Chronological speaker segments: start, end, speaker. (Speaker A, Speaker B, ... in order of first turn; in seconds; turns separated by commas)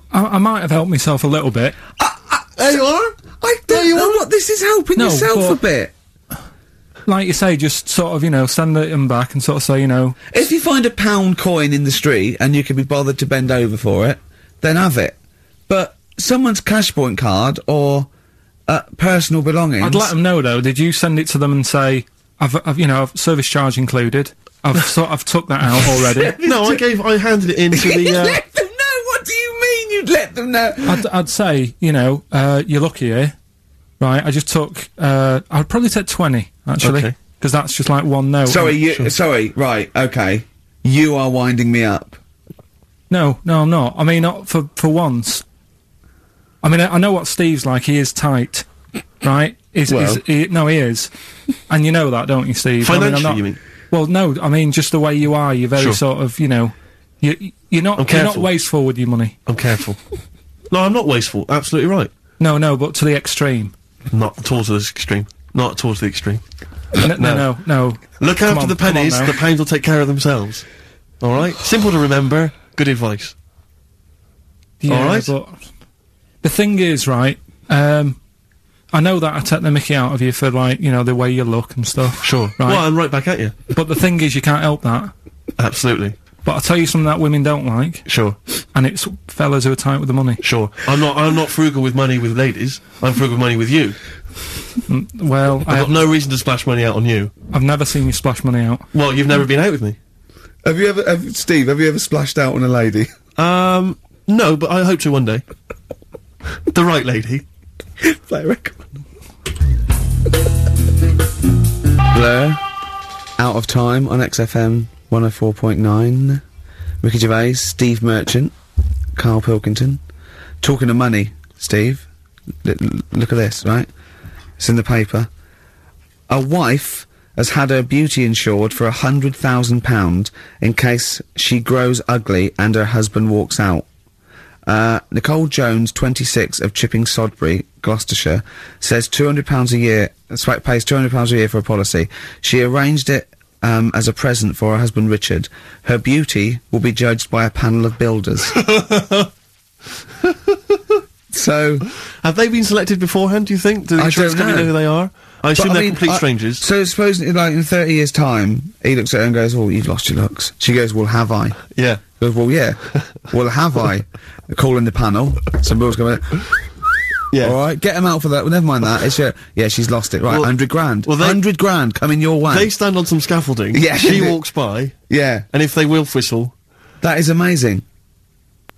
Speaker A: 0.1-1.8, Speaker B: 2.0-2.5, Speaker C: 2.6-4.2, Speaker B: 3.4-5.9, Speaker A: 5.0-5.6, Speaker A: 7.0-10.2, Speaker B: 10.3-15.2, Speaker B: 15.7-18.1, Speaker B: 18.7-20.1, Speaker A: 19.8-26.4, Speaker B: 25.9-26.8, Speaker C: 26.4-28.4, Speaker B: 27.7-31.1, Speaker A: 30.8-33.4, Speaker A: 34.0-38.8, Speaker C: 36.8-37.1, Speaker B: 38.5-42.2, Speaker A: 43.1-45.4, Speaker A: 46.6-48.7, Speaker A: 49.2-59.4, Speaker C: 49.9-50.2, Speaker C: 52.8-53.6, Speaker C: 58.0-58.5, Speaker C: 59.5-60.0, Speaker C: 60.7-62.1, Speaker A: 62.4-63.7, Speaker C: 64.1-73.3, Speaker A: 67.0-69.4, Speaker A: 74.8-75.8, Speaker C: 74.9-75.3, Speaker A: 76.4-78.2, Speaker A: 78.9-83.0, Speaker C: 82.2-83.6, Speaker A: 83.7-85.1, Speaker C: 85.6-86.2, Speaker A: 86.4-90.4, Speaker C: 88.0-88.4, Speaker C: 90.4-94.0, Speaker A: 94.9-95.9, Speaker C: 95.6-97.3, Speaker A: 97.5-98.9, Speaker C: 98.9-100.0, Speaker B: 100.6-103.1, Speaker C: 103.4-105.4, Speaker C: 106.7-107.4, Speaker B: 108.0-108.8, Speaker B: 112.1-112.6, Speaker B: 113.4-116.4, Speaker B: 117.0-118.5, Speaker B: 119.1-120.0, Speaker B: 120.6-122.1, Speaker B: 122.6-123.9, Speaker B: 124.6-125.3, Speaker B: 126.3-133.8, Speaker B: 134.7-148.6, Speaker C: 148.5-149.3, Speaker C: 150.2-150.8, Speaker B: 151.3-151.9, Speaker C: 152.0-156.6, Speaker B: 154.0-154.7, Speaker B: 155.5-166.5, Speaker C: 161.7-162.0, Speaker C: 167.3-167.6, Speaker B: 167.4-172.7, Speaker C: 170.3-171.4, Speaker C: 172.5-175.0, Speaker B: 173.7-174.4, Speaker B: 175.1-175.4, Speaker C: 175.5-176.5, Speaker B: 177.0-177.8